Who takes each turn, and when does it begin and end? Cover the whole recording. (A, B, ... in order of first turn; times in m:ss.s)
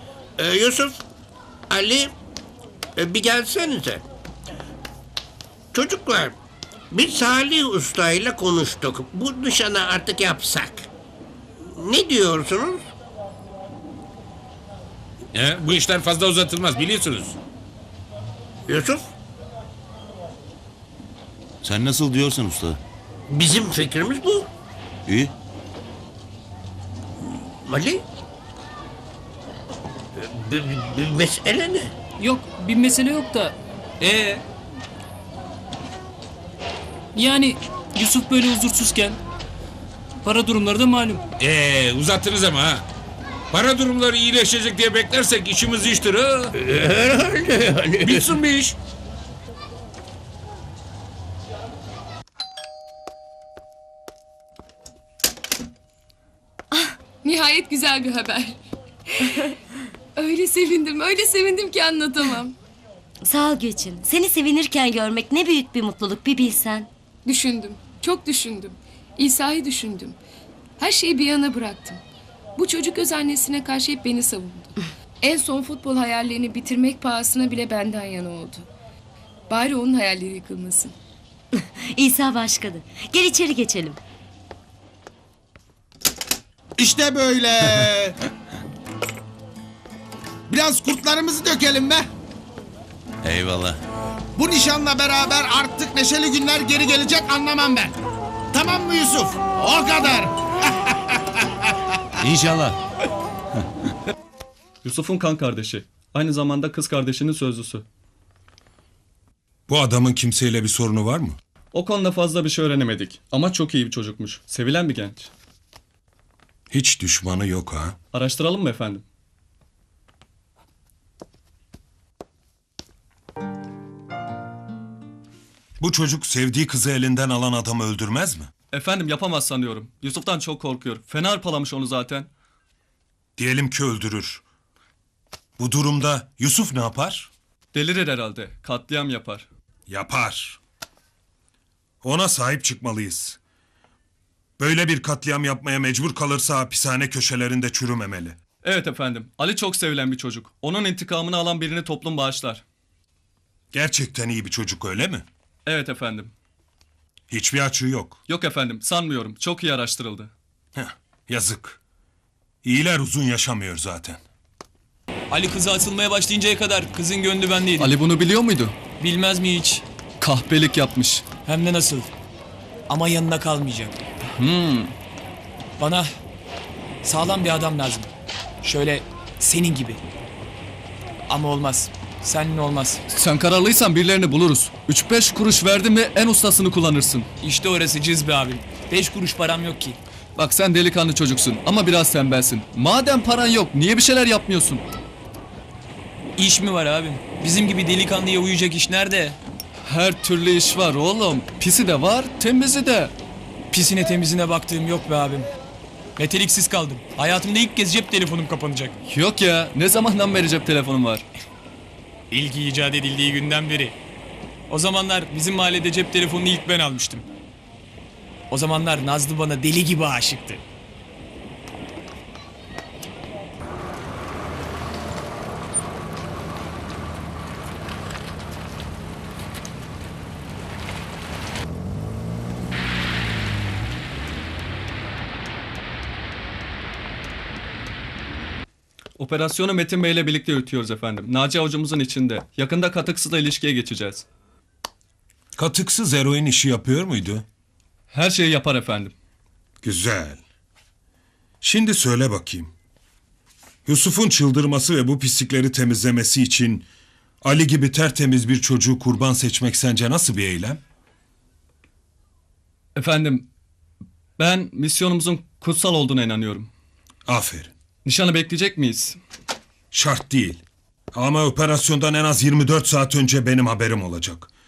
0:00.4-0:01.0 A
0:01.7-0:02.1 A
0:03.0-0:04.0 A
0:05.7-0:06.4 A
0:06.9-0:10.9 A
0:11.8-0:12.8 A
0:15.3-0:17.3 B
0:18.7-0:19.0 A
0:21.6-0:22.8 C
0:23.3-0:24.5 A
0:25.1-0:25.3 C
0:27.6-0:28.0 A
0:30.2-0:31.9 A
0:32.2-0:34.4 D
0:37.1-0:39.2 D
0:40.2-0:41.2 D
0:41.4-0:42.8 B
0:43.5-0:46.5 B
0:46.5-0:48.4 A
0:48.0-0:48.7 B
0:57.2-0:58.6 E
1:00.2-1:02.5 E
1:03.2-1:06.9 F
1:07.2-1:10.2 E
1:10.8-1:12.0 E
1:12.6-1:14.7 E
1:15.2-1:18.7 E
1:19.5-1:20.9 E
1:21.5-1:24.0 F
1:26.8-1:27.1 G
1:30.5-1:32.0 G
1:33.2-1:33.8 C
1:34.4-1:37.9 G
1:38.5-1:40.2 G
1:42.2-1:42.7 C
1:44.8-1:47.8 H
1:49.7-1:51.4 I
1:51.7-1:55.3 H
1:56.7-1:57.9 I
1:58.1-1:59.0 H
2:05.8-2:08.5 I
2:08.7-2:12.3 H
2:13.4-2:14.4 I
2:15.6-2:17.3 I
2:17.7-2:19.4 H
2:19.9-2:20.6 I
2:22.0-2:23.4 I
2:24.6-2:28.4 I
2:28.6-2:32.6 H
2:33.7-2:35.2 I
2:35.6-2:36.3 H
2:37.3-2:38.2 I
2:38.3-2:40.3 H
2:40.8-2:41.8 I
2:42.6-2:44.2 I
2:45.3-2:47.9 J
2:47.8-2:48.8 H
2:49.0-2:49.8 J
2:50.2-2:51.2 H
2:51.4-2:52.1 J
2:52.9-2:54.0 J
2:54.4-2:54.9 H
2:55.8-2:56.1 J
2:57.0-2:58.1 J
2:58.6-3:00.0 J
3:01.3-3:03.0 J
3:03.1-3:07.3 H
3:07.4-3:10.0 J
3:10.4-3:14.8 H
3:16.4-3:19.4 J
3:19.8-3:23.1 H
3:23.7-3:25.5 J
3:26.2-3:29.0 J
3:29.1-3:31.2 H
3:32.3-3:33.9 J
3:34.7-3:37.2 J
3:38.5-3:40.6 J
3:59.2-4:04.2 H
4:05.6-4:07.4 I
4:08.1-4:09.1 H
4:09.8-4:10.4 I
4:11.6-4:12.7 I
4:13.8-4:16.9 I
4:17.4-4:20.8 I
4:23.0-4:23.5 H
4:24.4-4:26.7 H
4:27.2-4:27.7 I
4:28.0-4:29.2 H
4:29.9-4:30.6 I
4:31.1-4:34.5 I